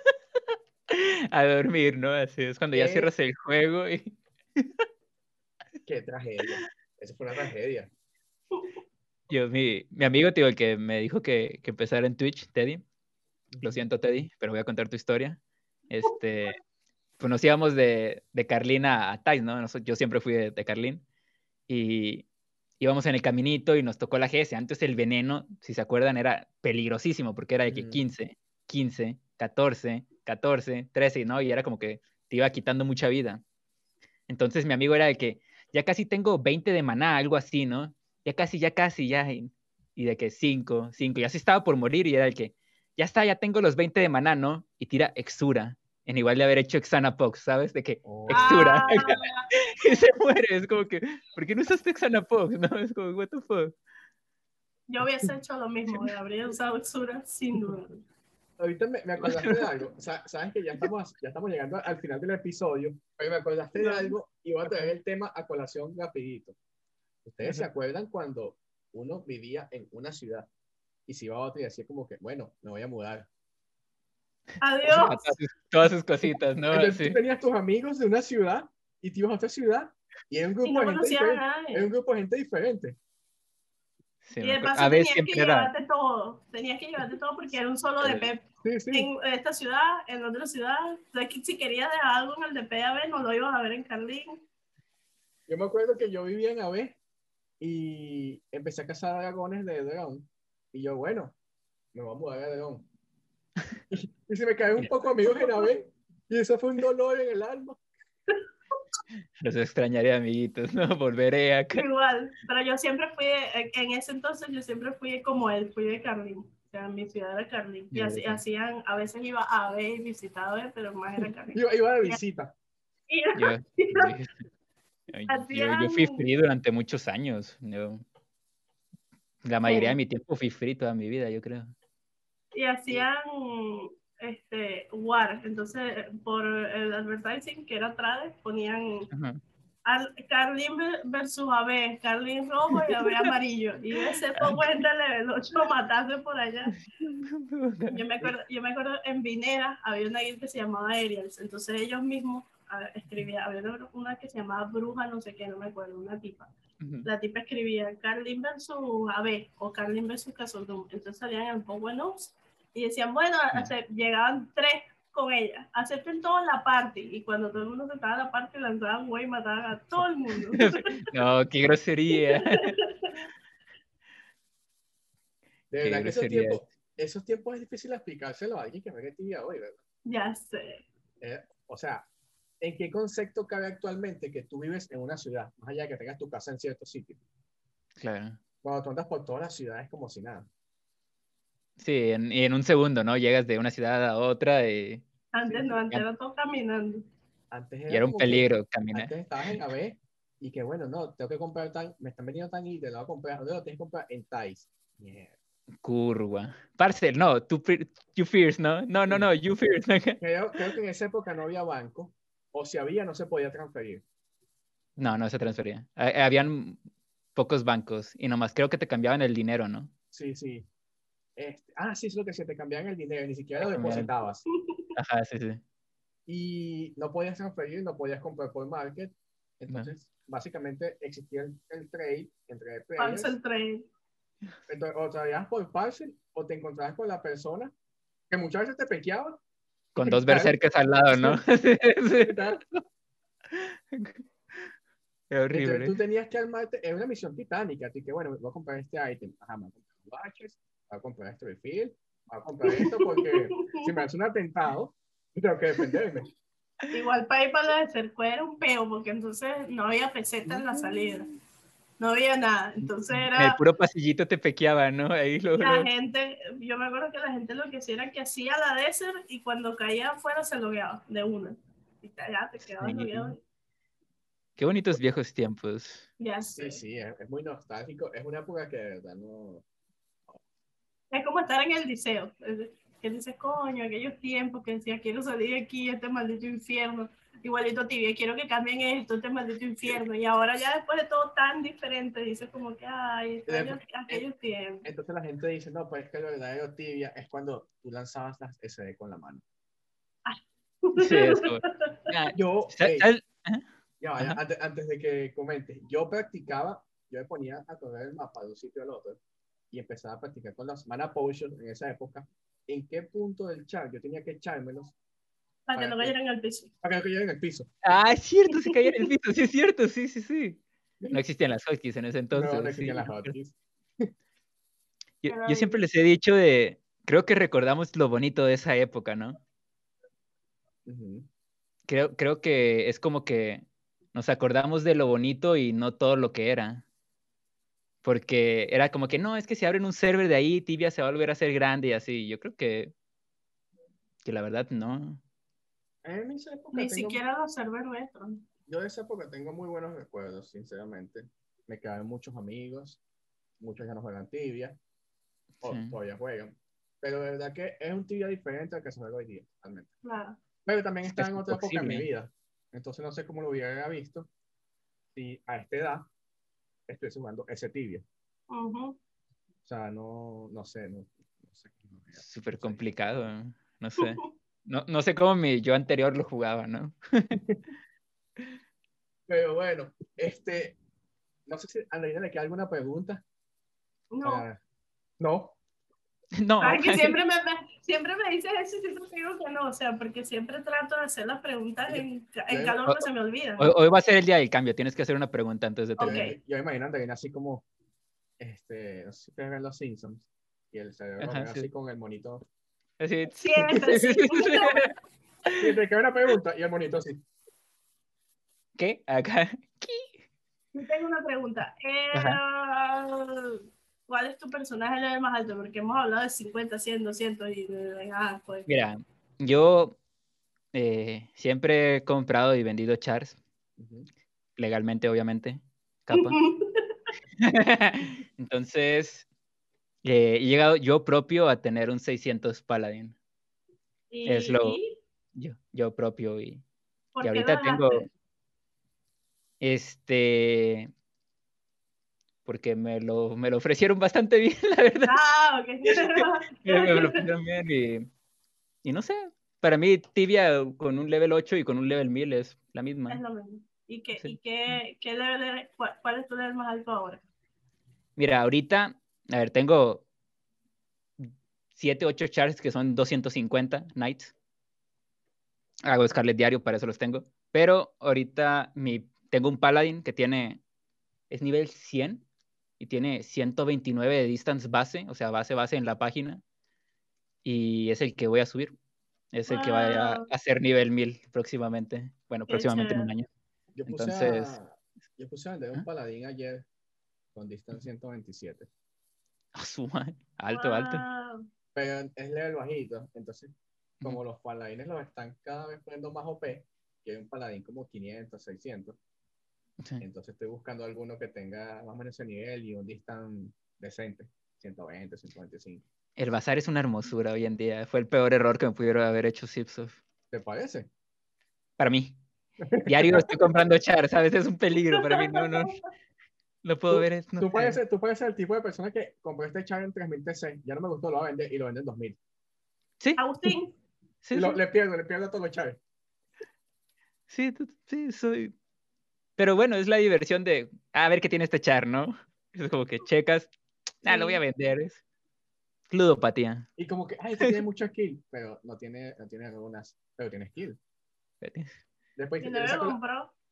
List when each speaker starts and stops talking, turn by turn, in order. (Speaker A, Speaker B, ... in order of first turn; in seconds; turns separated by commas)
Speaker A: 0.9-4.7, Speaker B: 2.7-3.1, Speaker B: 5.9-7.9, Speaker A: 9.3-12.8, Speaker B: 13.5-13.8, Speaker A: 13.6-16.6, Speaker A: 17.2-21.0, Speaker A: 21.7-22.3, Speaker A: 22.8-33.4, Speaker B: 27.7-28.0, Speaker A: 34.3-53.8, Speaker B: 48.0-48.7, Speaker C: 48.3-49.9, Speaker C: 54.9-58.0, Speaker B: 58.6-66.6, Speaker A: 59.2-59.6, Speaker C: 63.8-64.1, Speaker B: 67.2-70.5, Speaker B: 71.1-73.3, Speaker C: 74.6-75.3, Speaker A: 74.8-77.2, Speaker B: 76.7-83.0, Speaker C: 80.6-81.9, Speaker A: 84.2-85.7, Speaker C: 84.4-94.4, Speaker A: 88.0-88.3, Speaker B: 88.6-89.1, Speaker B: 95.5-97.0, Speaker B: 97.6-101.4, Speaker B: 101.9-102.9, Speaker B: 103.9-107.8, Speaker A: 109.4-111.8, Speaker C: 111.7-122.2, Speaker A: 117.9-118.4, Speaker B: 121.5-122.5, Speaker C: 123.1-124.1, Speaker A: 123.3-124.4, Speaker A: 125.1-128.0, Speaker C: 125.3-126.2, Speaker A: 129.4-131.7, Speaker C: 129.6-130.0, Speaker C: 132.5-139.1, Speaker A: 139.1-139.4, Speaker C: 139.9-146.7, Speaker A: 142.7-143.3, Speaker A: 146.7-148.3, Speaker C: 147.9-156.5, Speaker A: 156.8-157.1, Speaker C: 157.0-170.8, Speaker A: 170.5-172.8, Speaker C: 172.3-173.1, Speaker B: 175.7-179.8, Speaker A: 175.8-176.6, Speaker C: 180.1-180.9, Speaker B: 181.2-182.1, Speaker B: 182.6-187.2, Speaker A: 188.0-188.4, Speaker B: 188.6-190.5, Speaker A: 191.8-196.1, Speaker C: 195.3-197.1, Speaker B: 197.5-205.3, Speaker A: 197.9-199.1, Speaker A: 205.8-210.6, Speaker B: 210.2-214.0, Speaker A: 215.0-216.8, Speaker A: 217.3-219.9, Speaker B: 220.1-220.7, Speaker B: 221.4-224.4, Speaker A: 223.7-224.1, Speaker C: 224.6-224.9, Speaker A: 224.9-225.6, Speaker B: 226.3-233.4, Speaker C: 233.0-233.9, Speaker B: 234.7-237.7, Speaker B: 238.3-239.4, Speaker A: 239.9-242.8, Speaker B: 240.1-240.6, Speaker B: 241.1-241.4, Speaker B: 242.2-242.6, Speaker A: 243.5-244.7, Speaker A: 245.3-246.0, Speaker B: 245.5-256.3, Speaker C: 252.7-253.8, Speaker C: 256.9-261.3, Speaker C: 262.0-263.6, Speaker A: 262.8-265.9, Speaker C: 265.6-273.4, Speaker A: 272.8-273.4, Speaker A: 274.6-276.1, Speaker C: 276.2-276.8, Speaker B: 276.6-279.6, Speaker C: 281.1-294.9, Speaker B: 293.5-294.2, Speaker B: 294.9-299.4, Speaker C: 300.3-302.1, Speaker A: 300.9-303.6, Speaker B: 302.3-303.1, Speaker B: 304.0-309.2, Speaker B: 309.7-314.9, Speaker C: 315.7-316.7, Speaker B: 315.7-316.2, Speaker B: 316.8-317.7, Speaker A: 317.8-323.3, Speaker C: 318.6-318.9, Speaker B: 322.3-324.1, Speaker A: 325.2-329.4, Speaker C: 325.3-325.8, Speaker B: 330.9-331.3, Speaker A: 331.9-336.9, Speaker A: 338.0-342.9, Speaker A: 344.2-345.2, Speaker B: 346.0-347.2, Speaker C: 346.7-348.4, Speaker B: 348.7-353.0, Speaker B: 353.6-354.8, Speaker A: 355.6-355.9, Speaker B: 355.6-359.9, Speaker C: 360.0-360.4, Speaker B: 360.6-364.3, Speaker A: 361.1-362.1, Speaker B: 365.1-366.1, Speaker B: 366.9-368.1, Speaker C: 368.5-369.0, Speaker B: 369.6-372.8, Speaker A: 372.1-377.4, Speaker C: 374.0-374.3, Speaker B: 377.3-377.6, Speaker B: 379.3-380.8, Speaker B: 381.5-383.2, Speaker C: 384.1-384.4, Speaker B: 384.2-384.6, Speaker B: 385.2-385.6, Speaker A: 386.4-387.2, Speaker C: 386.6-393.7, Speaker B: 391.9-392.8, Speaker A: 393.6-396.2, Speaker C: 396.0-396.4, Speaker B: 396.0-397.7, Speaker B: 398.4-402.4, Speaker A: 401.2-401.7, Speaker A: 403.0-404.9, Speaker C: 403.4-404.8, Speaker B: 405.6-407.2, Speaker A: 408.8-410.2, Speaker C: 410.7-418.7, Speaker A: 412.1-412.4, Speaker A: 418.7-420.0, Speaker A: 420.7-423.4, Speaker B: 423.8-424.1, Speaker A: 424.6-426.4, Speaker C: 426.1-427.0, Speaker A: 427.4-429.3, Speaker A: 430.0-433.2, Speaker C: 434.1-435.0, Speaker A: 434.3-434.8, Speaker A: 435.4-436.6, Speaker C: 437.1-438.1, Speaker A: 437.2-438.1, Speaker A: 439.6-440.9, Speaker A: 442.4-445.2, Speaker C: 445.1-447.2, Speaker A: 445.9-448.1, Speaker A: 448.8-453.2, Speaker C: 453.1-457.2, Speaker A: 454.2-454.8, Speaker A: 458.2-460.1, Speaker A: 461.2-464.3, Speaker A: 465.9-470.6, Speaker A: 471.3-472.2, Speaker A: 472.8-476.4, Speaker A: 477.4-478.7, Speaker A: 479.3-483.3, Speaker C: 479.5-480.3, Speaker C: 482.5-483.1, Speaker B: 483.8-486.7, Speaker A: 483.9-484.6, Speaker B: 487.3-488.7, Speaker A: 489.6-491.0, Speaker C: 490.5-491.4, Speaker B: 491.8-499.0, Speaker B: 500.0-505.8, Speaker A: 506.2-510.0, Speaker B: 510.3-510.9, Speaker A: 511.8-512.2, Speaker B: 512.6-513.3, Speaker A: 512.9-515.8, Speaker C: 515.0-515.7, Speaker A: 516.6-517.8, Speaker B: 516.9-522.2, Speaker A: 523.0-523.3, Speaker C: 523.2-523.7, Speaker A: 524.2-524.6, Speaker B: 524.3-525.8, Speaker A: 527.3-528.5, Speaker A: 529.4-535.0, Speaker C: 534.1-534.4, Speaker A: 535.9-536.7, Speaker B: 536.8-540.8, Speaker A: 541.4-541.8, Speaker B: 542.2-543.0, Speaker C: 542.4-543.3